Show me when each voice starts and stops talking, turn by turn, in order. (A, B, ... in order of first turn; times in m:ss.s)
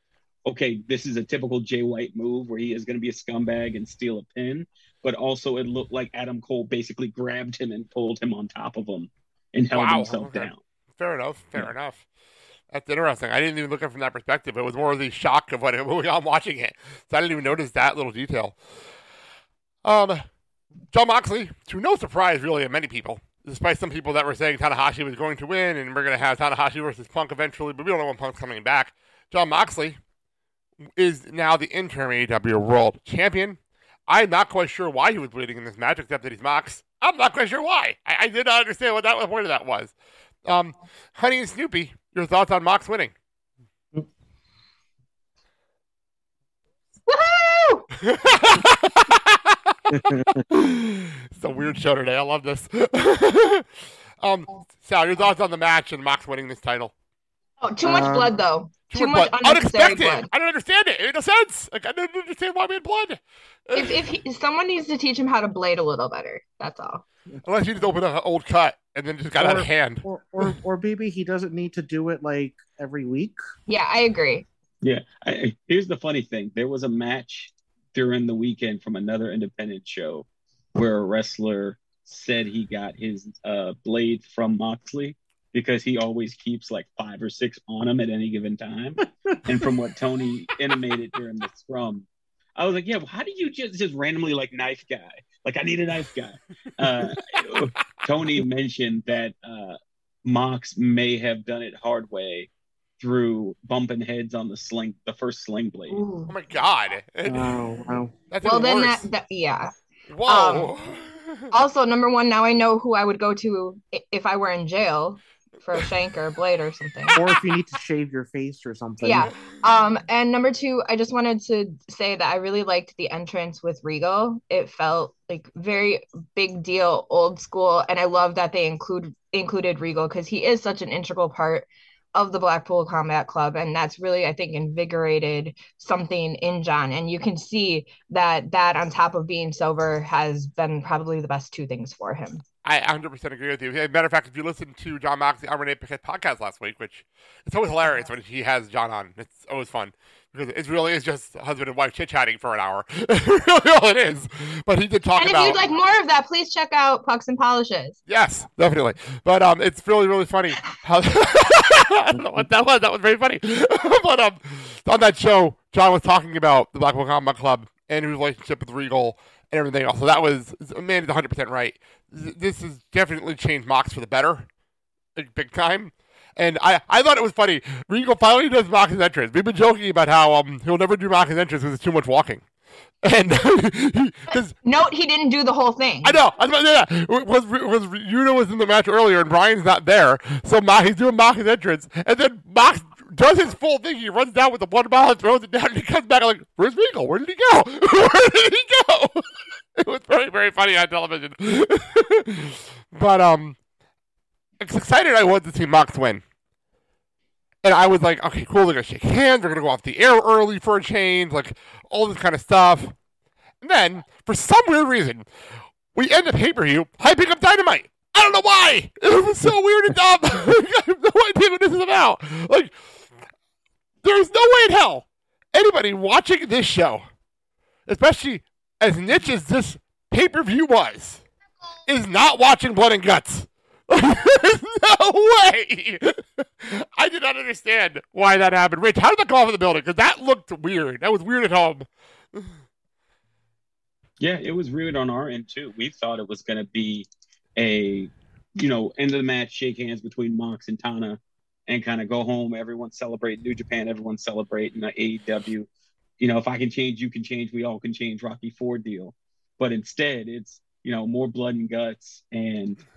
0:00.5-0:10.6 A
0:09.8-0:12.0 B
0:12.7-0:18.6 B
0:19.8-0:20.2 B
0:20.9-0:30.0 B
0:31.0-0:39.9 B
0:40.4-0:43.1 B
0:47.1-0:47.9 C
0:48.0-0:49.7 B
0:49.9-0:50.4 D
0:50.5-0:53.7 B
0:54.2-0:56.9 B
0:57.6-1:00.3 C
0:57.8-0:58.4 D
0:58.9-1:04.1 B
1:03.8-1:07.0 C
1:07.4-1:10.5 B
1:09.4-1:13.4 D
1:13.7-1:14.5 C
1:14.8-1:32.1 A
1:32.6-1:46.0 A
1:45.9-1:46.3 C
1:46.3-1:47.6 B
1:47.3-1:48.1 D
1:48.3-1:49.1 B
1:48.4-1:49.7 C
1:50.1-1:51.4 B
1:50.3-1:50.7 C
1:51.5-1:57.2 C
1:57.1-1:59.3 D
1:59.0-2:22.4 C
2:22.6-2:35.6 B
2:35.2-2:38.0 C
2:38.1-2:54.5 B
2:42.1-2:42.4 D
2:55.2-3:02.4 B
3:03.0-3:04.5 B
3:04.6-3:06.2 C
3:06.0-3:19.3 B
3:19.8-3:23.6 B
3:24.6-3:26.2 B
3:27.6-3:32.9 B
3:33.6-3:35.3 B
3:35.9-3:42.8 B
3:44.0-3:47.0 B
3:47.9-3:51.2 B
3:51.9-4:02.5 B
4:04.2-4:15.7 A
4:16.2-4:22.8 A